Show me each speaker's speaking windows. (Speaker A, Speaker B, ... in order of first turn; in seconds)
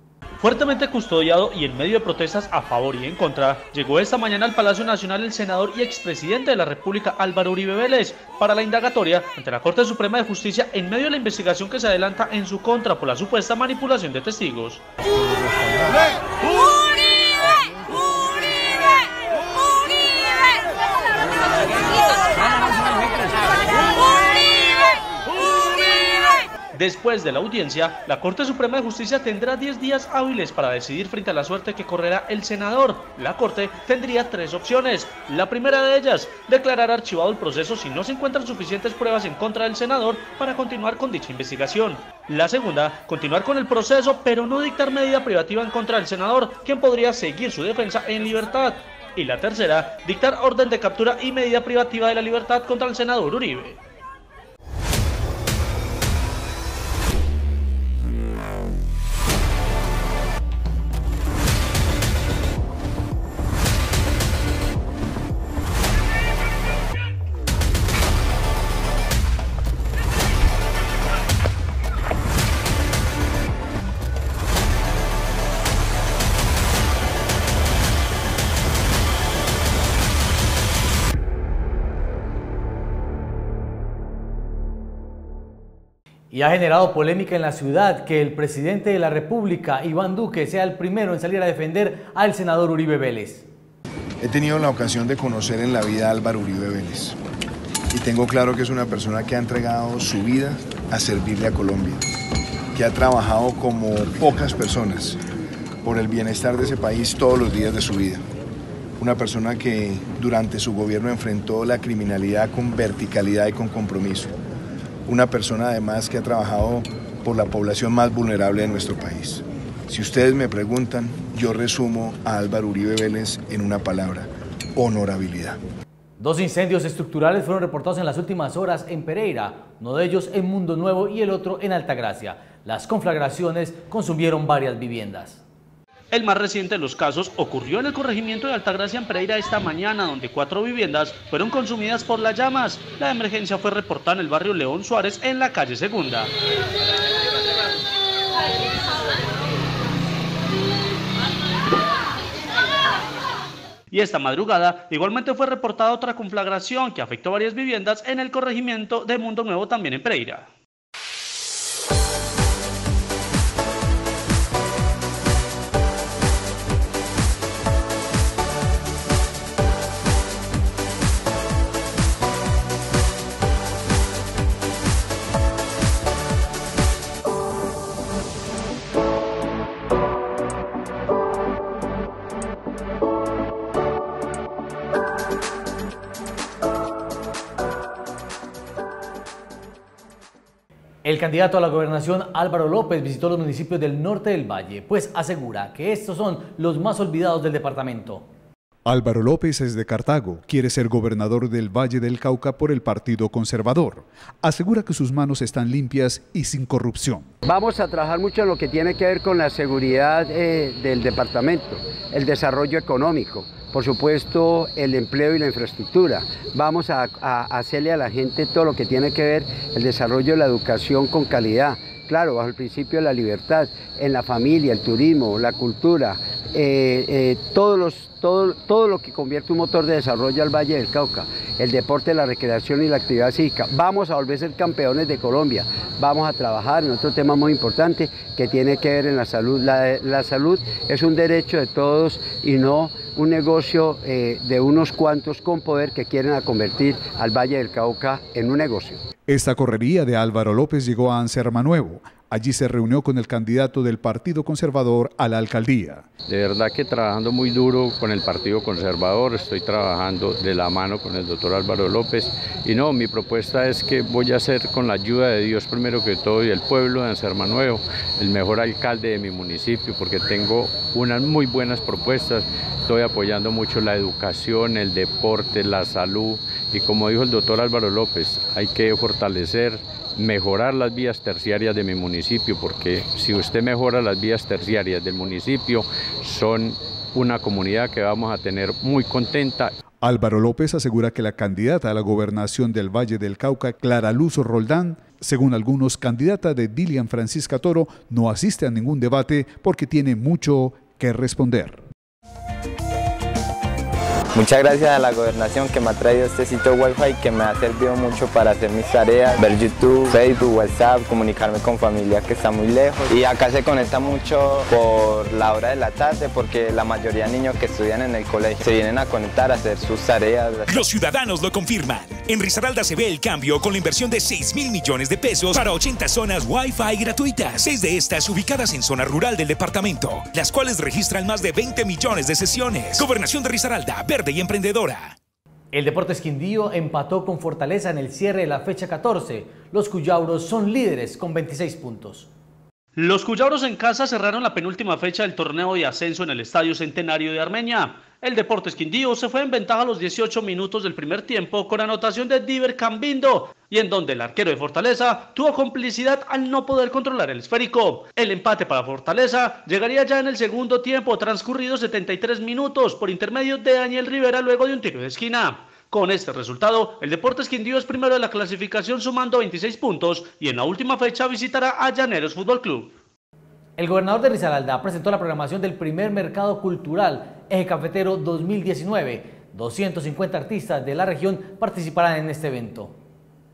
Speaker A: 0.4-14.8, 26.7-53.8, 136.1-146.3, 153.9-160.4, 342.9-372.9
Speaker B: 86.3-93.5, 126.2-135.4, 191.0-198.2, 335.7-342.3, 373.8-382.9
Speaker C: 94.2-97.2, 97.9-102.0, 102.7-105.2, 105.8-108.2, 109.0-114.3, 115.1-125.6
Speaker D: 198.8-207.3, 249.3-256.1, 290.0-301.8
Speaker E: 207.4-249.0
Speaker F: 256.4-279.7, 280.2-286.7, 287.2-289.6
Speaker G: 304.3-320.9
Speaker H: 320.7-335.1